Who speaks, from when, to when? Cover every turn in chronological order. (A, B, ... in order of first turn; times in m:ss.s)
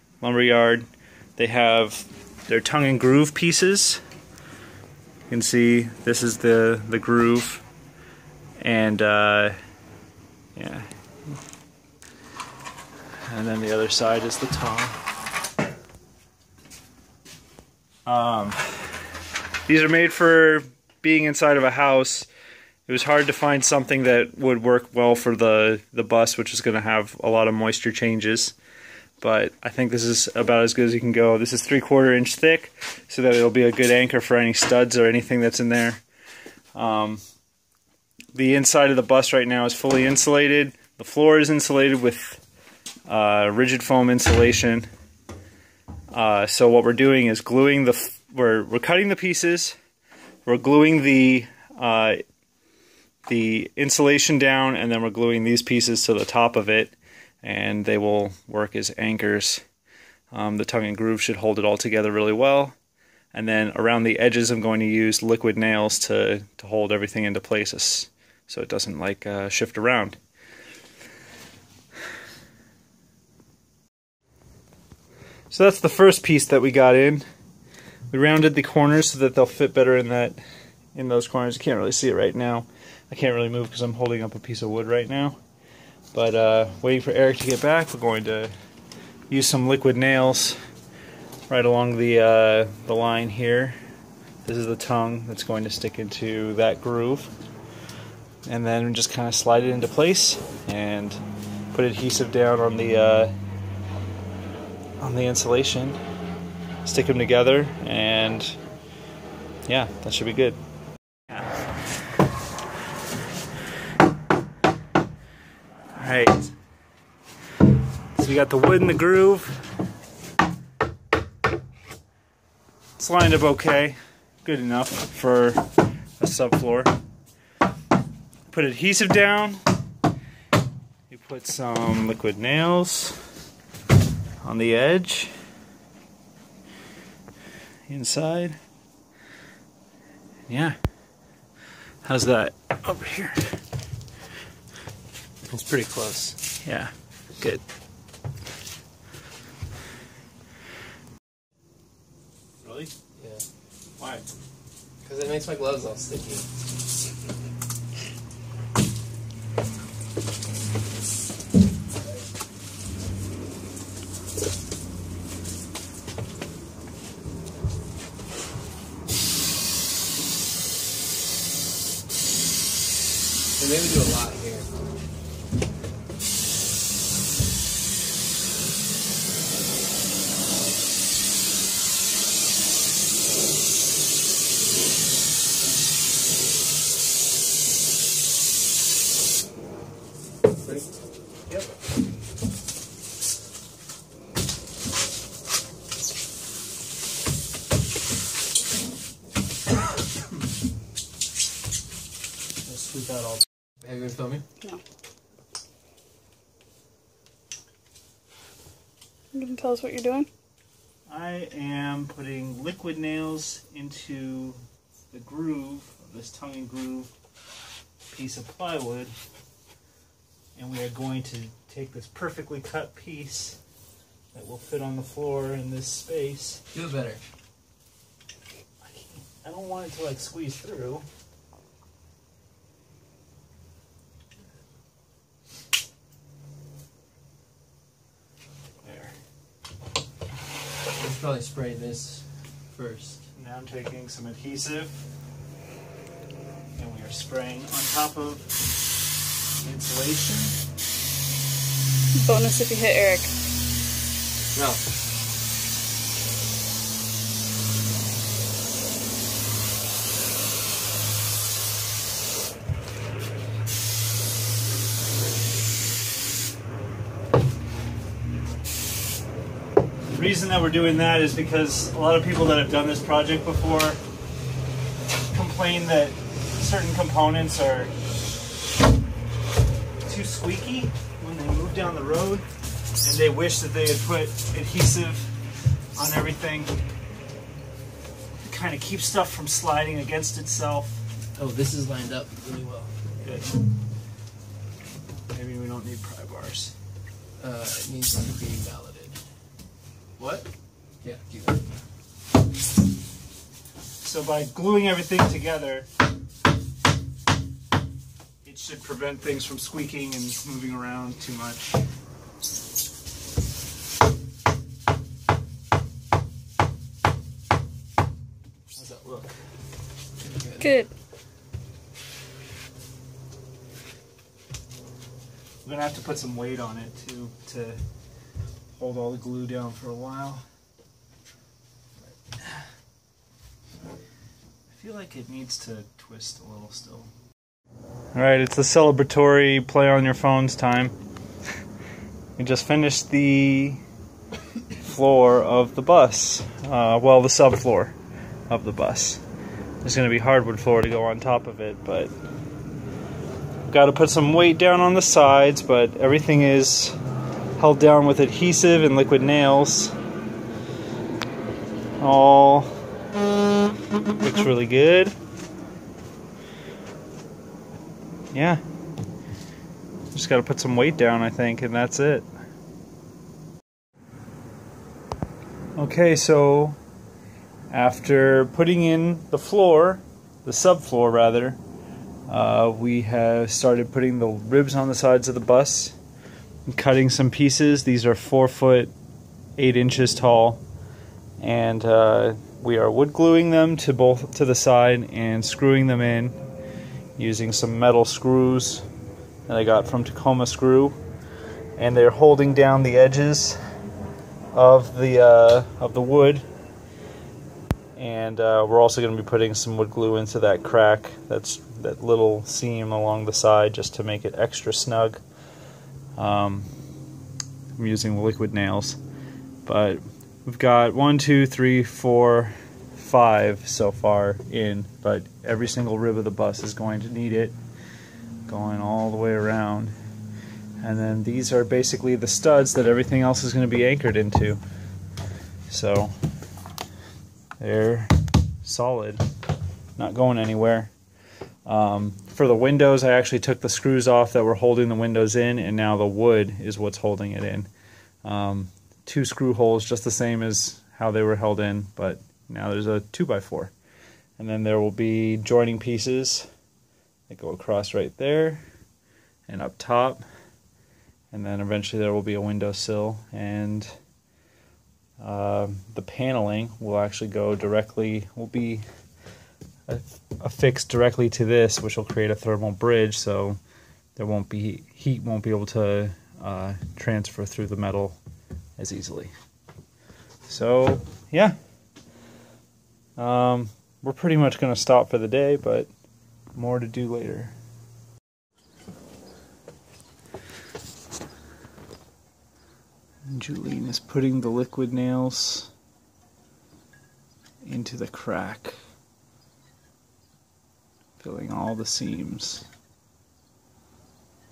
0:00.2-0:00.8 A
0:01.4-0:04.0 A
0:05.3-0:07.6 A
0:08.6-0:09.6 A
0:10.6-0:10.9 A
0:13.3-0:15.0 A
0:18.0-0:18.9 A
0:19.6-0:22.3 A
0:22.9-0:28.6 A
0:29.2-0:36.0 A
0:36.7-0:37.2 A
0:38.3-0:42.4 A
0:43.1-0:44.9 A
0:46.1-0:49.8 A
0:50.4-0:52.2 A
0:53.3-0:59.6 A
1:00.3-1:02.7 A
1:03.3-1:10.2 A
1:15.5-1:17.2 A
1:18.1-1:20.4 A
1:20.9-1:25.4 A
1:26.1-1:28.5 A
1:29.3-1:30.6 A
1:31.5-1:33.8 A
1:34.4-1:37.3 A
1:38.4-1:41.2 A
1:41.7-1:43.3 A
1:45.0-1:46.0 A
1:46.8-1:48.6 A
1:49.7-1:50.6 A
1:55.9-1:56.5 A
1:58.1-1:59.6 A
2:03.0-2:05.7 A
2:06.2-2:06.9 A
2:08.5-2:09.6 A
2:11.1-2:13.2 A
2:14.4-2:15.3 A
2:17.9-2:18.6 A
2:20.5-2:20.8 A
2:22.0-2:23.6 A
2:25.4-2:26.4 B
2:26.6-2:27.6 A
2:32.6-2:32.9 A
2:33.2-2:33.4 B
2:34.0-2:34.2 A
2:35.0-2:36.4 B
2:53.6-2:54.7 B
3:23.8-3:24.4 B
3:29.3-3:30.3 C
3:31.1-3:34.6 A
3:35.1-3:37.1 A
3:38.1-3:39.1 A
3:40.6-3:43.6 A
3:44.3-3:46.6 A
3:46.7-3:47.2 B
3:48.8-3:51.0 A
3:58.8-3:59.1 A
4:00.9-4:03.2 B
4:03.4-4:05.0 A
4:06.8-4:08.5 A
4:09.6-4:10.6 A
4:12.1-4:13.3 C
4:14.5-4:14.8 B
4:30.1-4:34.0 A
4:35.3-4:37.9 A
4:40.0-4:42.4 A
4:43.0-4:45.3 A
4:45.9-4:46.8 A
4:48.4-4:51.0 A
4:51.3-4:53.1 B
4:53.2-4:53.5 A
4:55.3-4:56.7 A
4:57.4-4:59.2 B
5:00.2-5:00.5 A
5:01.0-5:01.6 B
5:04.0-5:05.9 A
5:08.4-5:11.7 A
5:18.7-5:19.3 A
5:20.2-5:20.8 B
5:20.6-5:20.9 C
5:25.6-5:27.8 A
5:28.7-5:30.4 A
5:32.4-5:32.6 A
5:34.7-5:37.1 A
5:38.1-5:40.9 A
5:42.4-5:43.8 A
5:44.8-5:47.9 A
5:48.5-5:49.2 A
5:49.8-5:52.1 A
5:53.7-5:57.0 A
5:57.6-5:59.9 A
6:02.0-6:02.7 A
6:04.2-6:05.1 A
6:08.3-6:08.6 A
6:10.1-6:12.3 A
6:15.8-6:16.8 A
6:17.7-6:21.6 A
6:22.3-6:26.0 A
6:26.6-6:28.9 A
6:29.6-6:30.6 A
6:31.4-6:36.4 A
6:37.2-6:38.8 A
6:39.5-6:41.0 A
6:41.8-6:43.6 A
6:44.5-6:46.4 A
6:47.9-6:55.2 A
6:56.2-6:56.7 A
6:57.7-6:59.0 A
6:59.6-7:07.6 A
7:08.5-7:09.9 A
7:10.8-7:14.6 A
7:15.7-7:16.1 A
7:17.6-7:19.2 A
7:20.0-7:20.9 A
7:21.6-7:27.7 A
7:28.2-7:33.7 A
7:34.4-7:36.5 A
7:37.3-7:38.6 A
7:39.5-7:40.2 A
7:41.3-7:43.9 A
7:45.2-7:48.8 A
7:49.9-7:53.6 A
7:54.2-7:58.2 A
7:58.8-7:59.3 A
8:00.5-8:01.6 A
8:03.2-8:05.9 A
8:06.5-8:07.5 A
8:13.3-8:15.7 A
8:17.6-8:18.8 A
8:21.2-8:22.6 A